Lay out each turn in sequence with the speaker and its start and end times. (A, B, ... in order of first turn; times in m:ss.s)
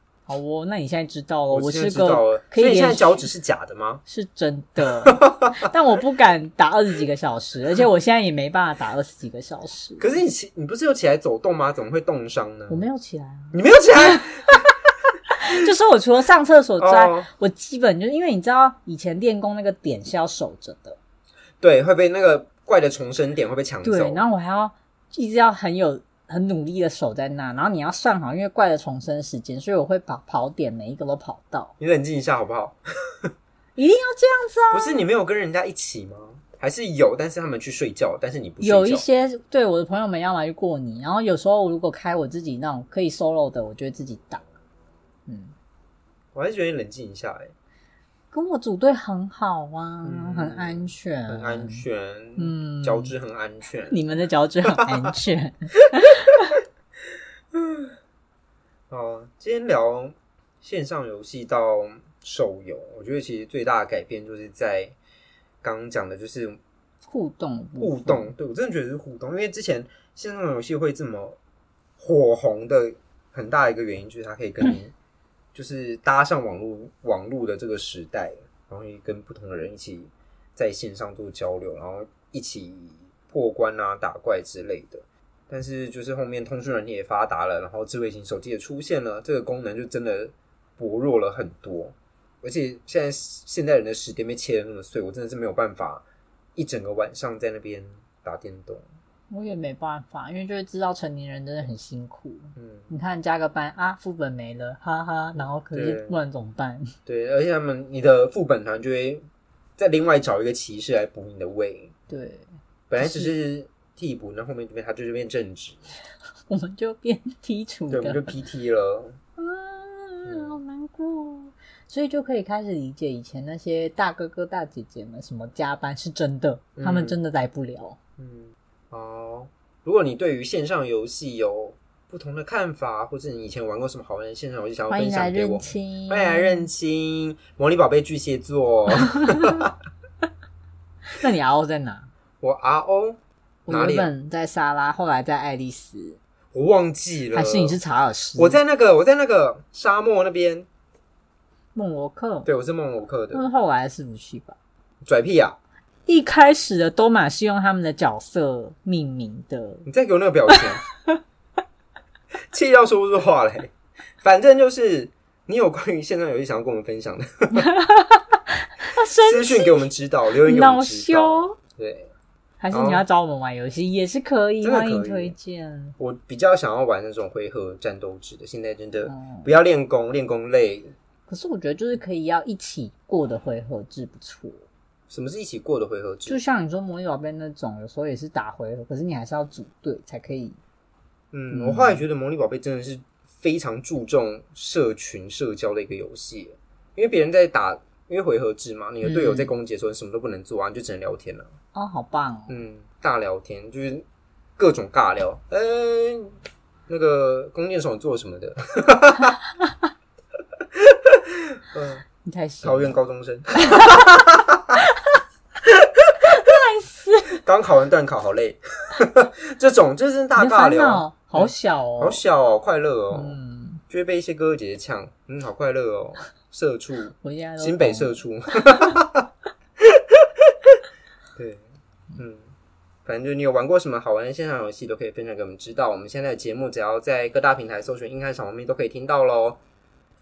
0:00.3-0:03.3 A
0:01.5-0:04.0 B
0:04.1-0:10.1 A
0:05.0-0:05.7 B
0:10.0-0:12.9 B
0:12.7-0:14.6 A
0:13.5-0:14.6 B
0:15.3-0:21.0 A
0:16.8-0:17.3 B
0:21.6-0:24.2 B
0:23.8-0:31.7 A
0:31.8-0:33.3 B
0:33.8-0:35.0 A
0:34.7-0:39.0 B
0:38.6-0:44.4 A
0:45.3-0:45.5 A
0:46.3-0:47.5 B
0:48.3-0:51.8 A
0:50.0-0:54.0 B
0:52.4-0:53.1 A
0:53.9-0:56.6 A
0:54.8-0:55.1 B
0:57.5-0:58.0 B
0:58.9-1:05.0 B
1:05.6-1:06.6 B
1:07.1-1:08.3 A
1:07.8-1:11.4 B
1:12.0-1:14.9 B
1:15.5-1:36.0 B
1:36.6-1:38.8 B
1:39.3-1:46.9 A
1:42.6-1:42.9 B
1:45.7-1:46.2 B
1:47.1-1:49.2 B
1:49.8-1:51.9 B
1:52.1-1:53.3 A
1:52.9-1:55.8 B
1:56.5-1:58.3 A
1:57.9-1:59.2 B
1:59.4-2:08.0 A
2:00.2-2:00.6 B
2:06.8-2:07.2 B
2:08.2-2:19.8 B
2:14.9-2:16.7 A
2:19.2-2:19.6 A
2:21.1-2:22.1 A
2:22.4-2:24.1 B
2:23.7-2:26.2 A
2:26.5-2:27.8 B
2:27.3-2:28.6 A
2:28.4-2:30.7 B
2:31.8-2:32.5 A
2:32.4-2:33.5 B
2:33.3-2:34.6 A
2:35.0-2:35.6 B
2:36.1-2:39.9 A
2:39.9-2:40.8 B
2:40.5-2:41.2 A
2:42.5-2:47.7 B
2:47.5-2:49.9 A
2:49.2-2:52.1 B
2:50.4-2:51.6 A
2:52.6-2:56.0 A
2:52.7-2:53.0 B
2:54.6-2:55.4 B
2:56.0-3:01.0 B
2:59.1-2:59.5 A
3:01.3-3:04.6 A
3:05.1-3:06.4 B
3:06.3-3:10.6 A
3:11.3-3:21.5 B
3:11.5-3:12.0 A
3:19.0-3:19.5 A
3:21.7-3:22.6 A
3:22.5-3:24.0 B
3:24.6-3:26.4 B
3:26.9-3:29.4 B
3:30.8-3:32.0 B
3:32.2-3:33.0 A
3:32.6-3:34.8 B
3:33.6-3:34.2 A
3:34.8-3:35.2 A
3:35.7-3:36.3 B
3:36.2-3:37.4 A
3:37.4-3:49.3 B
3:40.4-3:42.2 A
3:43.1-3:43.8 A
3:47.2-3:48.9 A
3:49.8-3:50.8 B
3:51.4-3:51.6 B
3:52.2-3:52.5 B
3:53.1-3:59.6 B